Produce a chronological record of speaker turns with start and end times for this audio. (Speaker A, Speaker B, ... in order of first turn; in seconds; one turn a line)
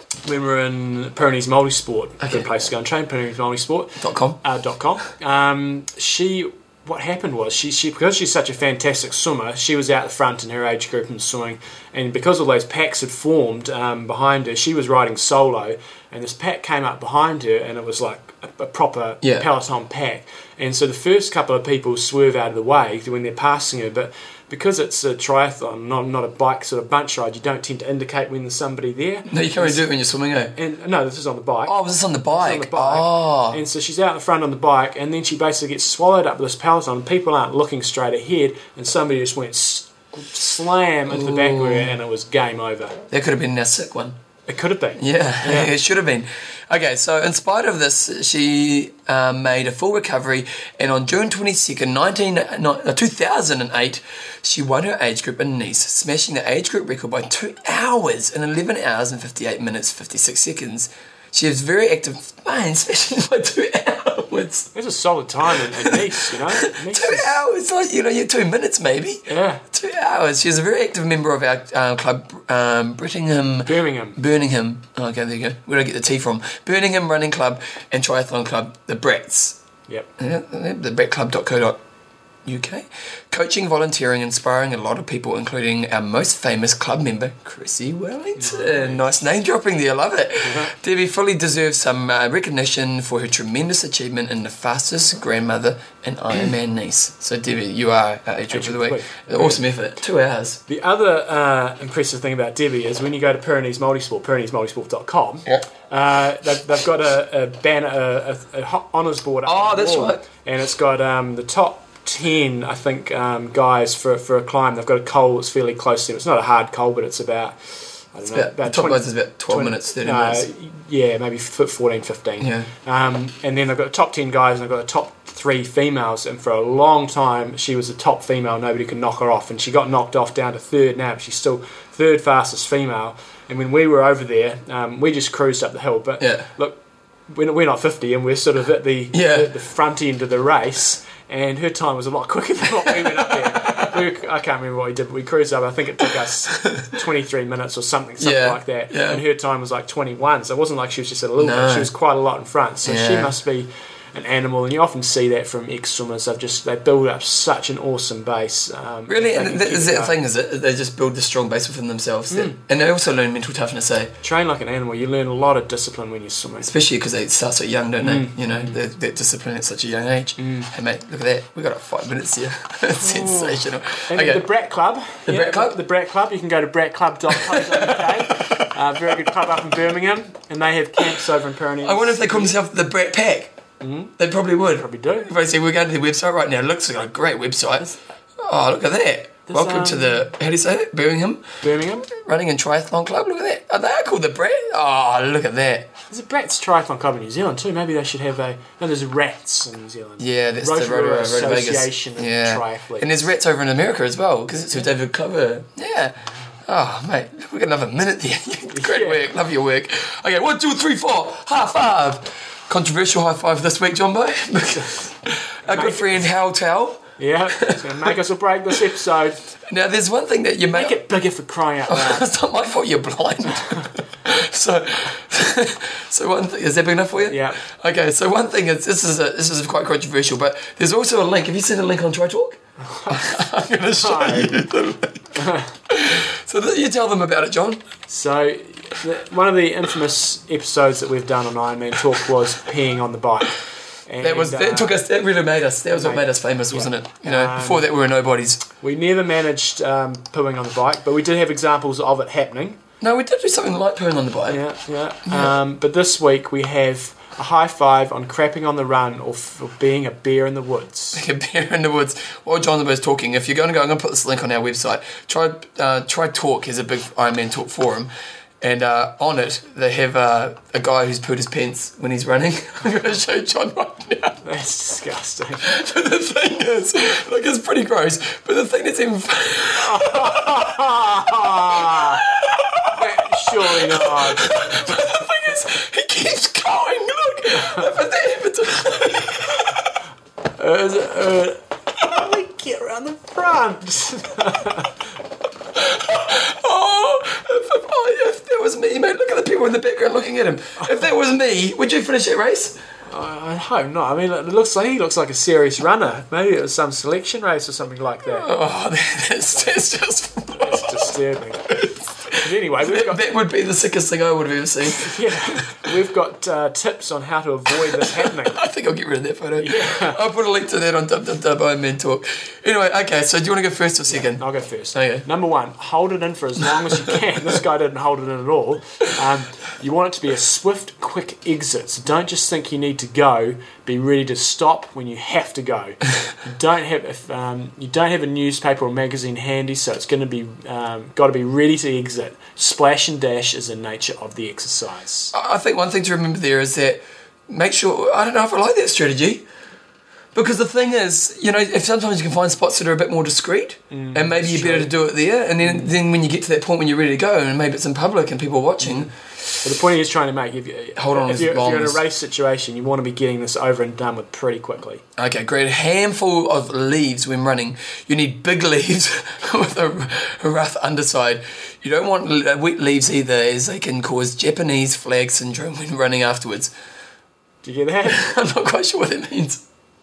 Speaker A: 0.2-29.8
Speaker B: 4.0-4.4
Speaker B: 29.3-30.5
Speaker A: 30.6-31.7
Speaker B: 31.6-33.6
Speaker A: 32.3-43.0
Speaker B: 41.1-41.9
Speaker B: 43.1-44.2
Speaker A: 44.5-45.7
Speaker B: 45.0-64.7
Speaker A: 64.7-67.4
Speaker B: 65.5-79.6
Speaker A: 69.3-69.6
Speaker A: 73.7-74.2
Speaker B: 80.2-81.8
Speaker B: 82.5-100.6
Speaker A: 88.4-89.0
Speaker A: 90.4-90.7
Speaker A: 98.5-99.7
Speaker A: 100.7-160.1
Speaker B: 109.5-110.2
Speaker B: 118.3-120.5
Speaker B: 122.4-122.7
Speaker B: 136.2-136.5
Speaker B: 139.1-139.5
Speaker B: 143.6-143.9
Speaker B: 146.5-146.9
Speaker B: 148.2-149.2
Speaker B: 151.4-151.9
Speaker B: 152.8-153.3
Speaker B: 159.1-164.1
Speaker A: 162.3-162.6
Speaker A: 164.2-166.7
Speaker B: 166.6-174.4
Speaker A: 168.0-168.8
Speaker A: 170.4-170.7
Speaker A: 172.9-182.6
Speaker B: 175.2-175.8
Speaker B: 177.3-178.7
Speaker B: 181.8-183.5
Speaker A: 183.8-185.3
Speaker B: 184.2-191.6
Speaker A: 189.5-190.3
Speaker A: 191.6-192.1
Speaker B: 192.1-195.9
Speaker A: 196.1-203.3
Speaker B: 200.2-218.1
Speaker A: 208.7-209.2
Speaker A: 214.8-215.0
Speaker A: 215.7-216.2
Speaker A: 217.2-219.4
Speaker B: 219.7-220.9
Speaker A: 220.7-222.3
Speaker B: 221.9-237.8
Speaker A: 227.2-227.6
Speaker A: 232.8-233.4
Speaker A: 234.0-234.6
Speaker A: 235.3-235.7
Speaker A: 238.1-245.0
Speaker B: 244.2-248.6
Speaker A: 245.9-247.9
Speaker A: 248.8-252.8
Speaker B: 253.0-254.6
Speaker A: 254.5-261.2
Speaker B: 261.1-268.1
Speaker B: 268.6-274.4
Speaker A: 274.4-275.7
Speaker B: 275.6-280.8
Speaker A: 279.8-282.2
Speaker B: 281.7-289.9
Speaker A: 282.9-285.1
Speaker A: 287.5-287.9
Speaker A: 290.6-295.1
Speaker B: 295.8-302.8
Speaker A: 303.1-308.5
Speaker B: 308.2-311.0
Speaker A: 309.5-309.8
Speaker A: 310.5-311.6
Speaker B: 311.7-315.8
Speaker A: 312.4-313.2
Speaker A: 314.8-318.6
Speaker B: 317.8-325.2
Speaker A: 319.6-320.2
Speaker A: 324.1-345.3
Speaker B: 345.3-349.4
Speaker B: 350.3-359.1
Speaker A: 353.9-354.9
Speaker A: 359.6-365.0
Speaker B: 360.9-362.0
Speaker B: 365.2-376.7
Speaker A: 377.6-378.2
Speaker B: 378.0-379.6